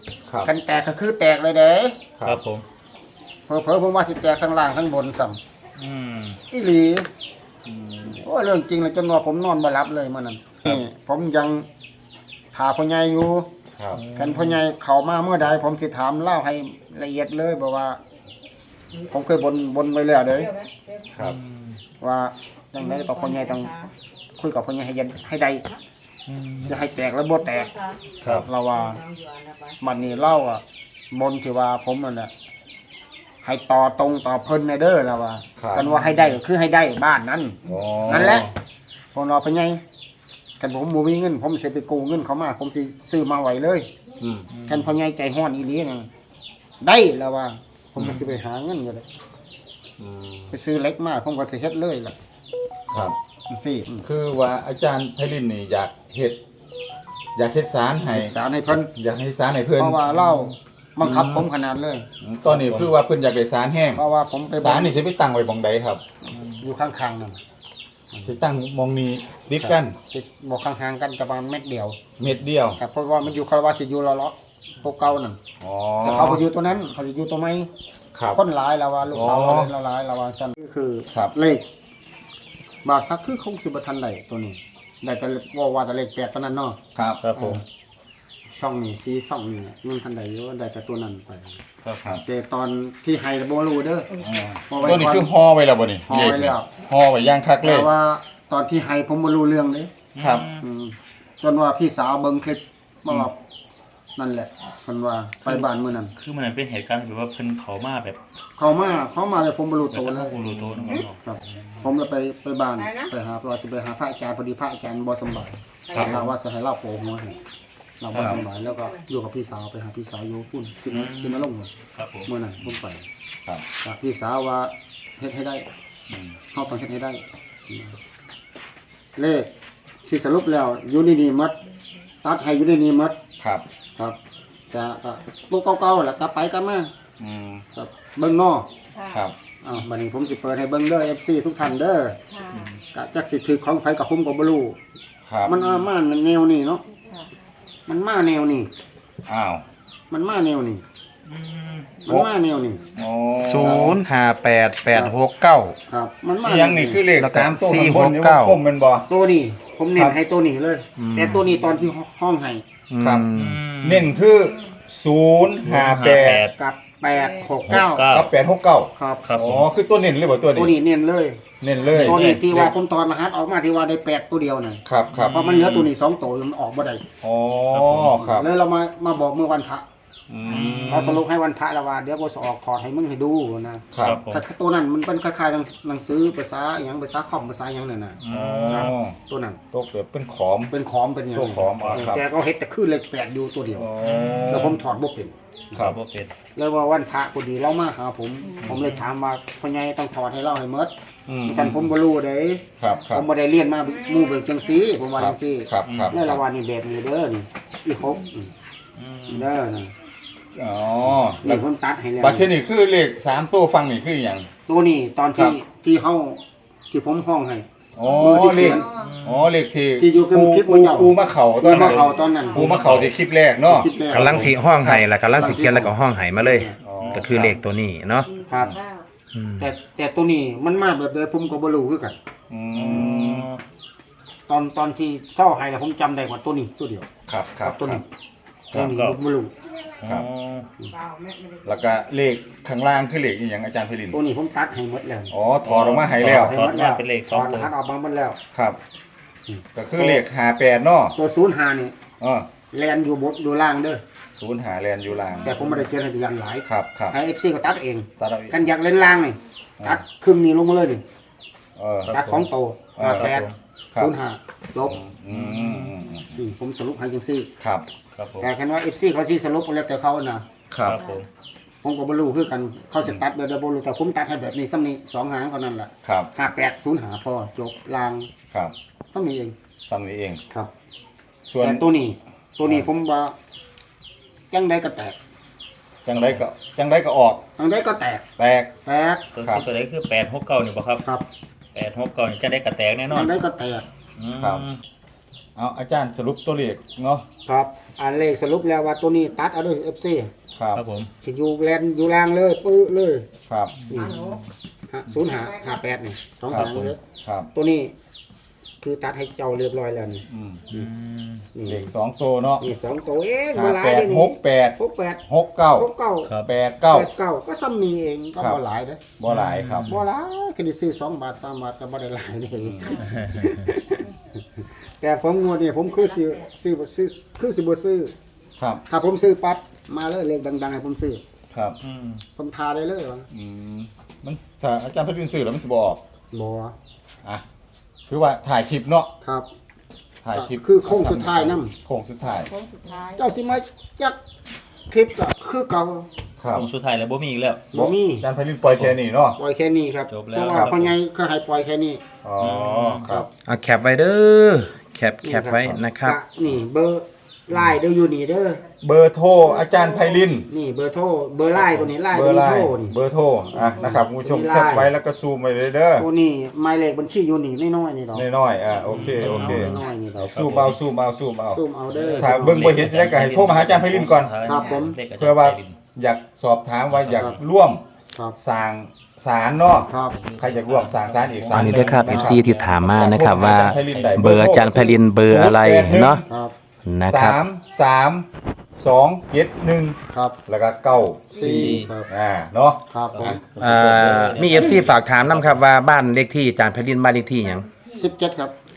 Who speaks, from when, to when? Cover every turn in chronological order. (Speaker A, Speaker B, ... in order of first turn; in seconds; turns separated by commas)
Speaker A: 0.4-2.0, Speaker B: 2.2-2.6, Speaker A: 3.5-5.4, Speaker B: 5.8-6.4, Speaker A: 6.5-7.1, Speaker C: 7.7-8.2, Speaker A: 8.1-11.7, Speaker A: 12.5-13.5, Speaker C: 13.8-14.0, Speaker B: 13.9-14.6, Speaker A: 14.1-18.0, Speaker A: 19.0-20.5, Speaker C: 21.1-21.4, Speaker B: 21.2-21.8, Speaker A: 22.0-23.8, Speaker D: 23.4-23.9, Speaker A: 24.4-25.7, Speaker B: 26.3-26.8, Speaker A: 26.6-29.0, Speaker B: 28.2-28.5, Speaker D: 29.1-29.7, Speaker A: 29.8-32.3, Speaker A: 33.4-38.5, Speaker C: 35.6-35.8, Speaker B: 35.8-36.3, Speaker C: 37.7-38.5, Speaker B: 38.1-38.4, Speaker A: 39.1-39.8, Speaker A: 40.6-43.9, Speaker C: 44.2-44.5, Speaker B: 44.5-44.9, Speaker A: 44.6-46.1, Speaker A: 46.8-49.0, Speaker B: 48.0-48.3, Speaker C: 50.0-50.6, Speaker A: 50.5-52.1, Speaker C: 52.9-53.2, Speaker A: 53.5-54.0, Speaker C: 54.0-56.4, Speaker C: 57.4-58.3, Speaker A: 58.1-58.9, Speaker C: 58.9-60.0, Speaker A: 59.8-62.1, Speaker B: 60.1-60.5, Speaker C: 61.0-61.5, Speaker C: 62.2-66.0, Speaker B: 62.5-62.9, Speaker A: 63.9-65.0, Speaker A: 66.5-67.4, Speaker C: 68.2-70.0, Speaker A: 69.6-72.0, Speaker C: 72.2-72.8, Speaker A: 72.8-75.4, Speaker C: 75.6-76.4, Speaker A: 76.0-77.7, Speaker C: 78.1-78.4, Speaker A: 78.3-81.6, Speaker C: 79.1-79.7, Speaker A: 82.8-86.8, Speaker C: 87.0-87.2, Speaker B: 87.2-87.6, Speaker A: 87.3-87.6, Speaker A: 88.5-91.6, Speaker B: 91.8-92.2, Speaker A: 92.1-95.3, Speaker C: 94.2-97.9, Speaker A: 96.1-96.7, Speaker A: 97.6-99.9, Speaker B: 100.1-100.6, Speaker C: 100.2-100.5, Speaker A: 100.6-103.3, Speaker A: 104.2-106.1, Speaker B: 105.4-108.2, Speaker A: 108.6-110.5, Speaker B: 109.9-111.8, Speaker A: 111.2-117.3, Speaker C: 115.9-116.2, Speaker A: 118.0-121.7, Speaker B: 120.9-122.3, Speaker A: 122.2-123.0, Speaker A: 123.8-125.6, Speaker A: 126.5-128.0, Speaker A: 129.2-129.5, Speaker A: 130.0-131.6, Speaker A: 132.2-133.2, Speaker C: 133.4-133.7, Speaker A: 134.7-136.9, Speaker C: 137.2-137.6, Speaker A: 137.7-138.7, Speaker A: 139.6-142.2, Speaker A: 142.9-144.8, Speaker C: 145.2-145.6, Speaker A: 145.4-146.8, Speaker A: 147.9-148.7, Speaker C: 149.3-149.6, Speaker A: 150.1-150.8, Speaker B: 151.2-152.0, Speaker A: 152.0-152.9, Speaker C: 152.9-154.0, Speaker E: 153.3-155.8, Speaker A: 155.9-157.1, Speaker C: 156.4-159.1, Speaker E: 157.1-158.6, Speaker A: 159.1-162.6, Speaker E: 161.0-161.3, Speaker E: 162.9-163.6, Speaker C: 163.0-163.3, Speaker B: 163.3-164.1, Speaker C: 163.8-166.4, Speaker B: 165.7-166.5, Speaker A: 166.5-168.1, Speaker B: 167.7-168.3, Speaker C: 168.0-170.8, Speaker A: 168.9-169.2, Speaker B: 169.2-169.7, Speaker A: 170.5-177.0, Speaker C: 171.6-172.5, Speaker B: 171.9-172.7, Speaker C: 174.8-175.5, Speaker B: 175.1-175.9, Speaker C: 177.2-178.5, Speaker B: 177.7-178.2, Speaker A: 178.1-179.8, Speaker C: 180.3-181.2, Speaker B: 180.4-181.2, Speaker A: 180.8-189.6, Speaker C: 183.9-184.2, Speaker B: 184.0-184.4, Speaker B: 188.2-188.9, Speaker C: 188.3-189.2, Speaker C: 189.7-190.7, Speaker A: 190.7-195.3, Speaker C: 191.3-192.2, Speaker B: 191.8-192.1, Speaker C: 193.7-194.8, Speaker B: 194.0-194.8, Speaker C: 195.7-196.0, Speaker B: 195.7-196.3, Speaker A: 196.5-200.9, Speaker B: 198.7-199.1, Speaker C: 201.3-201.9, Speaker A: 201.4-208.5, Speaker C: 202.8-203.2, Speaker C: 205.1-206.4, Speaker B: 205.8-206.2, Speaker B: 209.0-209.5, Speaker A: 209.3-209.9, Speaker C: 210.6-211.6, Speaker A: 211.4-212.5, Speaker C: 212.2-214.5, Speaker A: 214.7-216.4, Speaker A: 216.9-218.9, Speaker C: 217.9-225.1, Speaker B: 218.9-219.5, Speaker A: 220.0-222.9, Speaker B: 222.5-223.1, Speaker A: 223.6-224.5, Speaker E: 224.1-228.3, Speaker A: 225.3-226.8, Speaker C: 226.8-227.6, Speaker B: 227.0-227.6, Speaker D: 228.3-229.0, Speaker A: 228.5-228.8, Speaker E: 229.3-229.7, Speaker A: 229.6-232.2, Speaker C: 232.5-233.5, Speaker B: 232.7-233.6, Speaker A: 232.9-233.2, Speaker A: 234.5-237.1, Speaker C: 237.3-238.0, Speaker A: 237.6-238.0, Speaker A: 238.7-239.5, Speaker B: 238.7-239.2, Speaker B: 240.0-240.7, Speaker C: 240.0-240.3, Speaker D: 241.0-241.6, Speaker C: 241.6-244.2, Speaker A: 244.1-245.3, Speaker C: 245.3-246.6, Speaker B: 245.6-247.7, Speaker A: 246.4-248.4, Speaker C: 248.5-248.8, Speaker A: 249.5-250.2, Speaker C: 249.7-251.2, Speaker A: 251.2-251.9, Speaker C: 252.2-252.5, Speaker A: 252.7-254.0, Speaker C: 254.4-255.7, Speaker A: 255.4-261.0, Speaker C: 256.6-257.1, Speaker C: 258.2-258.6, Speaker C: 261.8-262.2, Speaker B: 262.1-262.4, Speaker A: 262.1-264.9, Speaker C: 263.0-263.4, Speaker B: 263.0-263.6, Speaker C: 264.8-266.4, Speaker B: 265.3-266.0, Speaker A: 266.3-267.5, Speaker C: 267.6-267.9, Speaker B: 268.1-268.5, Speaker A: 268.4-270.4, Speaker C: 270.7-271.0, Speaker B: 270.8-271.3, Speaker A: 271.8-278.3, Speaker C: 276.0-276.3, Speaker A: 279.1-279.5, Speaker C: 279.9-280.4, Speaker C: 281.5-281.8, Speaker A: 281.6-283.3, Speaker A: 284.5-285.1, Speaker C: 286.0-287.4, Speaker B: 286.1-286.4, Speaker A: 287.6-288.2, Speaker C: 288.4-288.7, Speaker A: 288.8-289.3, Speaker B: 289.3-291.0, Speaker B: 291.7-293.4, Speaker A: 293.1-293.9, Speaker B: 294.2-294.8, Speaker C: 294.3-294.7, Speaker C: 295.6-297.2, Speaker A: 297.5-300.3, Speaker C: 300.6-300.8, Speaker B: 300.7-301.1, Speaker A: 301.2-303.3, Speaker C: 303.5-303.7, Speaker B: 303.8-304.5, Speaker A: 303.9-304.2, Speaker A: 304.9-307.0, Speaker C: 306.5-307.5, Speaker A: 307.5-307.9, Speaker A: 308.8-310.9, Speaker C: 310.3-310.7, Speaker B: 310.7-311.5, Speaker A: 311.5-311.9, Speaker C: 311.6-312.7, Speaker A: 312.6-315.2, Speaker C: 313.5-317.1, Speaker A: 315.8-319.0, Speaker B: 316.2-316.5, Speaker C: 319.2-320.0, Speaker B: 319.3-320.0, Speaker A: 319.8-328.1, Speaker C: 322.6-323.0, Speaker B: 323.0-323.7, Speaker A: 328.9-331.2, Speaker C: 331.5-331.8, Speaker B: 331.8-332.2, Speaker A: 332.4-333.3, Speaker C: 333.3-336.0, Speaker A: 336.3-336.7, Speaker C: 338.1-339.1, Speaker C: 340.2-342.5, Speaker A: 340.3-341.7, Speaker D: 342.4-343.2, Speaker A: 343.0-344.2, Speaker A: 344.9-346.1, Speaker C: 346.4-346.7, Speaker B: 346.5-347.6, Speaker A: 347.7-348.3, Speaker C: 347.7-349.4, Speaker B: 348.6-349.0, Speaker A: 349.4-352.0, Speaker B: 350.1-350.9, Speaker C: 352.2-353.3, Speaker B: 352.4-353.1, Speaker E: 353.4-356.2, Speaker A: 355.2-358.6, Speaker C: 358.8-360.5, Speaker A: 360.5-362.9, Speaker C: 361.9-366.1, Speaker A: 363.5-364.9, Speaker A: 366.0-368.2, Speaker C: 368.1-371.6, Speaker B: 368.9-369.8, Speaker A: 368.9-370.3, Speaker B: 370.3-370.8, Speaker A: 371.5-372.7, Speaker B: 371.9-375.8, Speaker C: 372.1-374.3, Speaker A: 374.4-375.0, Speaker C: 375.2-377.8, Speaker B: 376.9-377.4, Speaker C: 378.4-386.2, Speaker A: 379.9-380.1, Speaker B: 380.1-384.3, Speaker E: 381.5-386.2, Speaker A: 386.3-386.5, Speaker E: 386.8-387.4, Speaker C: 387.1-394.5, Speaker A: 391.3-392.1, Speaker B: 391.4-391.9, Speaker A: 392.9-393.4, Speaker B: 393.1-395.6, Speaker E: 393.5-397.8, Speaker A: 397.8-398.5